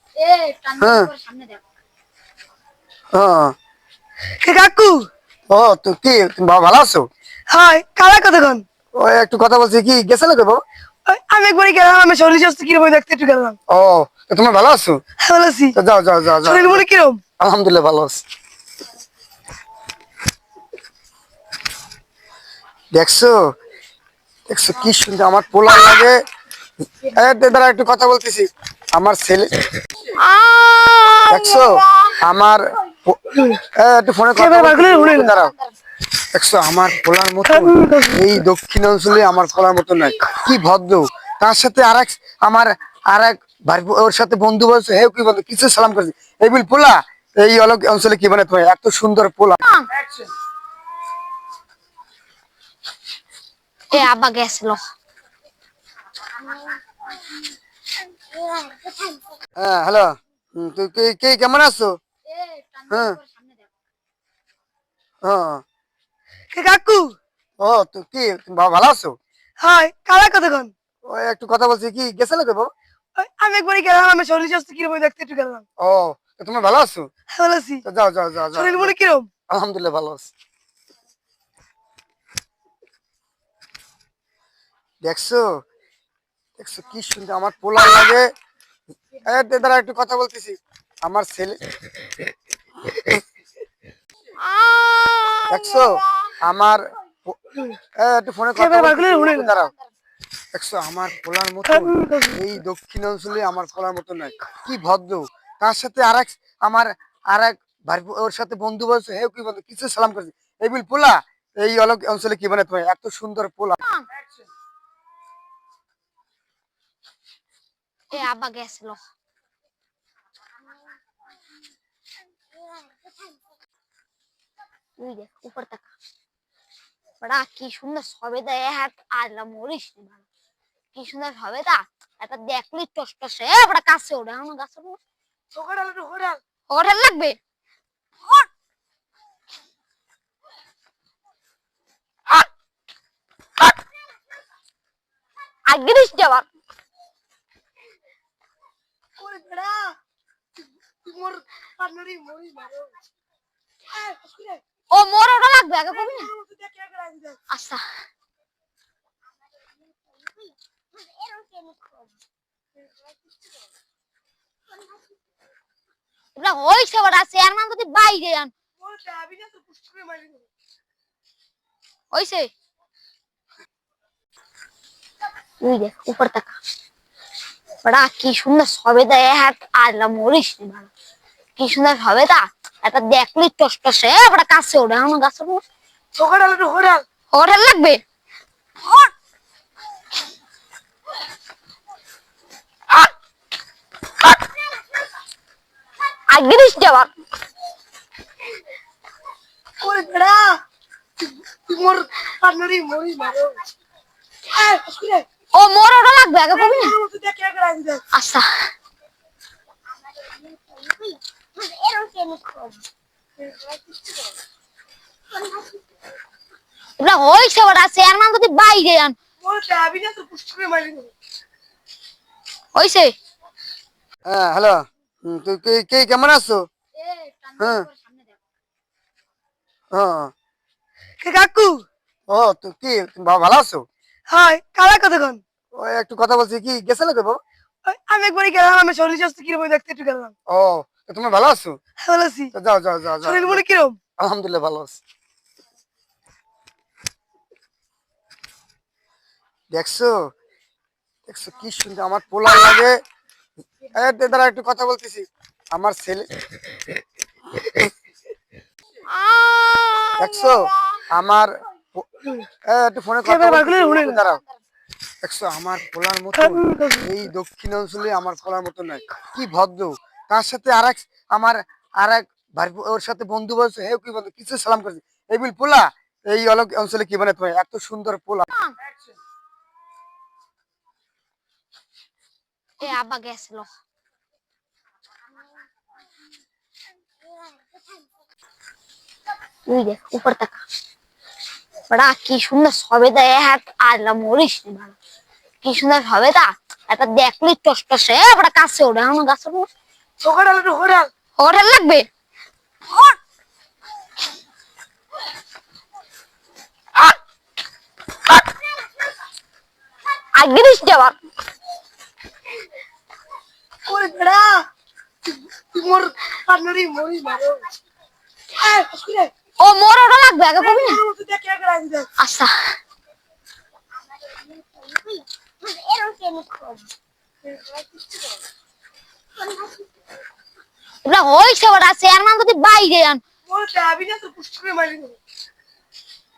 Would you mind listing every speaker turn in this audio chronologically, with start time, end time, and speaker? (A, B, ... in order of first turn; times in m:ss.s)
0:00.2-0:01.6 A
0:00.8-0:01.1 B
0:03.1-0:03.5 B
0:04.4-0:05.1 C
0:05.5-0:07.1 B
0:07.5-0:08.6 C
0:09.0-0:10.6 B
0:11.1-0:13.6 C
0:13.7-0:15.0 B
0:15.2-0:15.8 C
0:15.8-0:16.8 B
0:16.4-0:17.2 C
0:17.4-0:18.2 B
0:23.0-0:23.4 B
0:24.5-0:26.2 B
0:27.1-0:29.5 B
0:30.2-0:31.2 C
0:30.6-0:31.1 A
0:31.3-0:33.2 B
0:33.3-0:33.6 C
0:33.8-0:35.5 B
0:34.4-0:35.3 C
0:36.3-0:49.6 B
0:37.5-0:38.4 C
0:49.6-0:49.9 A
0:53.9-0:54.8 A
0:59.6-1:02.0 B
1:02.6-1:03.6 A
1:02.9-1:03.2 B
1:05.2-1:05.6 B
1:06.5-1:07.2 C
1:07.6-1:09.2 B
1:09.6-1:10.7 C
1:11.0-1:12.7 B
1:13.2-1:15.6 C
1:15.8-1:17.1 B
1:17.3-1:17.8 C
1:17.8-1:18.9 B
1:18.5-1:19.3 C
1:19.5-1:20.3 B
1:25.0-1:25.5 B
1:26.6-1:28.3 B
1:29.2-1:31.6 B
1:35.5-1:37.4 B
1:38.0-1:39.7 B
1:38.6-1:39.5 C
1:40.5-1:53.8 B
1:41.7-1:42.6 C
1:53.8-1:54.1 A
1:58.1-1:59.0 A
2:05.0-2:05.9 A
2:07.2-2:10.2 A
2:11.0-2:15.0 A
2:15.5-2:16.4 C
2:16.7-2:17.4 A
2:25.7-2:26.5 A
2:29.2-2:30.0 C
2:31.0-2:32.9 C
2:33.9-2:34.6 C
2:34.9-2:36.3 A
2:35.9-2:37.4 C
2:37.5-2:37.8 A
2:41.3-2:41.8 C
2:46.4-2:48.5 A
2:48.8-2:50.5 C
2:52.1-2:52.5 A
2:55.6-2:56.6 A
2:57.8-3:00.9 A
3:01.6-3:05.6 A
3:06.2-3:07.0 C
3:07.3-3:08.0 A
3:16.3-3:17.1 A
3:19.8-3:20.6 C
3:21.2-3:23.7 C
3:24.5-3:25.3 C
3:25.5-3:27.0 A
3:26.5-3:28.0 C
3:28.1-3:28.5 A
3:30.7-3:31.2 C
3:31.7-3:32.6 A
3:33.4-3:34.2 C
3:37.0-3:39.2 A
3:39.4-3:41.1 C
3:42.8-3:43.1 A
3:44.3-3:46.7 B
3:47.1-3:48.3 A
3:47.6-3:47.9 B
3:49.9-3:50.3 B
3:51.2-3:51.8 C
3:52.3-3:53.9 B
3:54.3-3:55.4 C
3:55.7-3:57.4 B
3:57.9-4:00.3 C
4:00.5-4:01.8 B
4:02.0-4:02.5 C
4:02.5-4:03.6 B
4:03.2-4:04.0 C
4:04.2-4:05.0 B
4:09.7-4:10.1 B
4:11.3-4:12.9 B
4:14.0-4:16.3 B
4:19.3-4:20.0 C
4:20.2-4:22.1 B
4:22.7-4:24.4 B
4:23.2-4:24.2 C
4:25.2-4:38.5 B
4:26.4-4:27.3 C
4:38.5-4:38.8 A
4:42.8-4:43.7 A
4:49.7-4:50.6 A
4:51.9-4:55.0 A
4:55.6-4:59.7 A
5:00.2-5:01.1 C
5:01.4-5:02.1 A
5:10.4-5:11.2 A
5:13.8-5:14.6 C
5:15.3-5:17.6 C
5:18.6-5:19.3 C
5:19.6-5:21.0 A
5:20.6-5:22.1 C
5:22.2-5:22.5 A
5:24.9-5:25.2 C
5:25.6-5:26.8 A
5:27.5-5:28.2 C
5:31.0-5:33.2 A
5:33.5-5:35.2 C